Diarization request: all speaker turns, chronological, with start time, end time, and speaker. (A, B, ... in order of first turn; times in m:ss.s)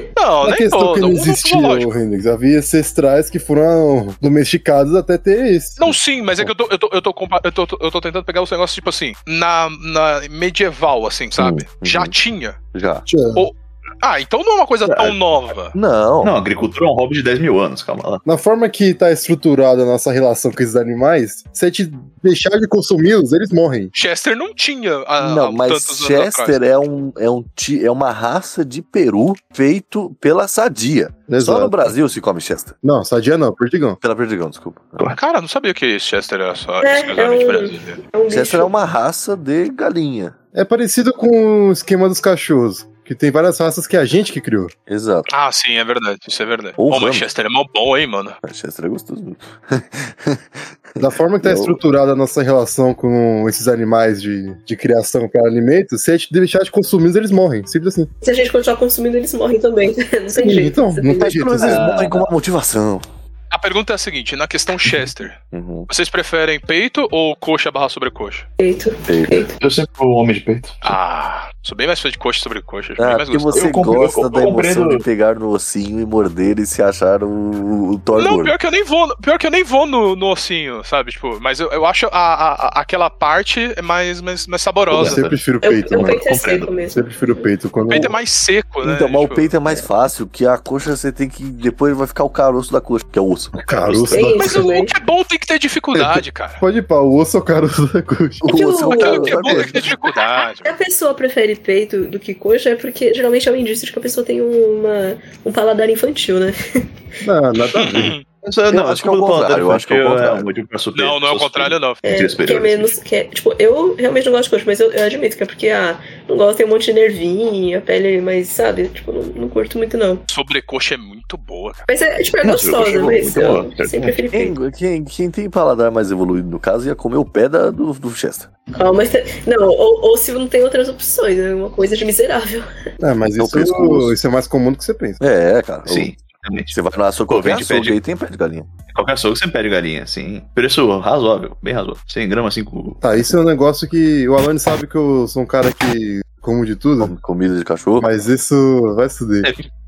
0:00.2-0:02.0 A
0:00.4-0:06.5 B
0:05.8-0:12.6 A
0:11.4-0:12.2 C
0:12.7-0:13.1 C
0:13.1-0:13.5 B
0:13.4-0:15.8 A
0:14.9-0:15.2 D
0:15.7-0:16.3 C
0:16.2-0:18.2 D
0:18.2-0:23.9 B
0:23.9-0:26.6 A
0:25.2-0:32.8 C
0:31.3-0:31.9 B
0:32.8-0:34.0 B
0:34.0-0:35.1 C
0:35.2-0:38.0 A
0:36.8-0:38.7 E
0:38.3-0:40.4 C
0:40.5-0:44.7 B
0:44.9-0:45.3 C
0:45.3-0:48.4 A
0:46.8-0:47.2 C
0:48.4-0:51.8 C
0:51.0-0:58.1 B
0:58.2-1:01.6 E
1:00.4-1:01.9 B
1:01.2-1:03.0 C
1:01.6-1:02.3 D
1:03.5-1:08.5 A
1:05.5-1:05.9 C
1:08.6-1:09.6 E
1:09.1-1:09.5 C
1:09.6-1:10.8 D
1:10.8-1:13.6 A
1:13.0-1:18.6 C
1:13.5-1:15.0 D
1:18.2-1:25.2 A
1:24.9-1:26.7 D
1:25.0-1:26.2 B
1:25.6-1:27.1 E
1:26.9-1:28.2 B
1:27.9-1:29.5 A
1:28.8-1:34.2 C
1:33.5-1:34.6 B
1:34.1-1:34.9 E
1:34.2-1:36.6 A
1:36.6-1:38.6 B
1:38.4-1:39.9 C
1:38.5-1:46.6 E
1:38.9-1:40.8 A
1:47.2-1:48.2 B
1:47.6-1:48.2 A
1:48.4-1:52.9 D
1:48.7-1:50.5 C
1:50.9-1:52.0 A
1:52.0-2:00.2 E
2:00.3-2:01.8 A
2:01.9-2:04.6 E
2:02.4-2:04.2 D
2:04.3-2:08.5 C
2:08.8-2:12.7 E
2:13.0-2:15.2 B
2:13.4-2:14.2 C
2:15.2-2:16.1 C
2:15.9-2:16.7 D
2:16.7-2:18.7 C
2:17.3-2:18.0 D
2:18.9-2:23.0 D
2:23.0-2:27.1 B
2:27.0-2:28.1 C
2:28.0-2:29.5 B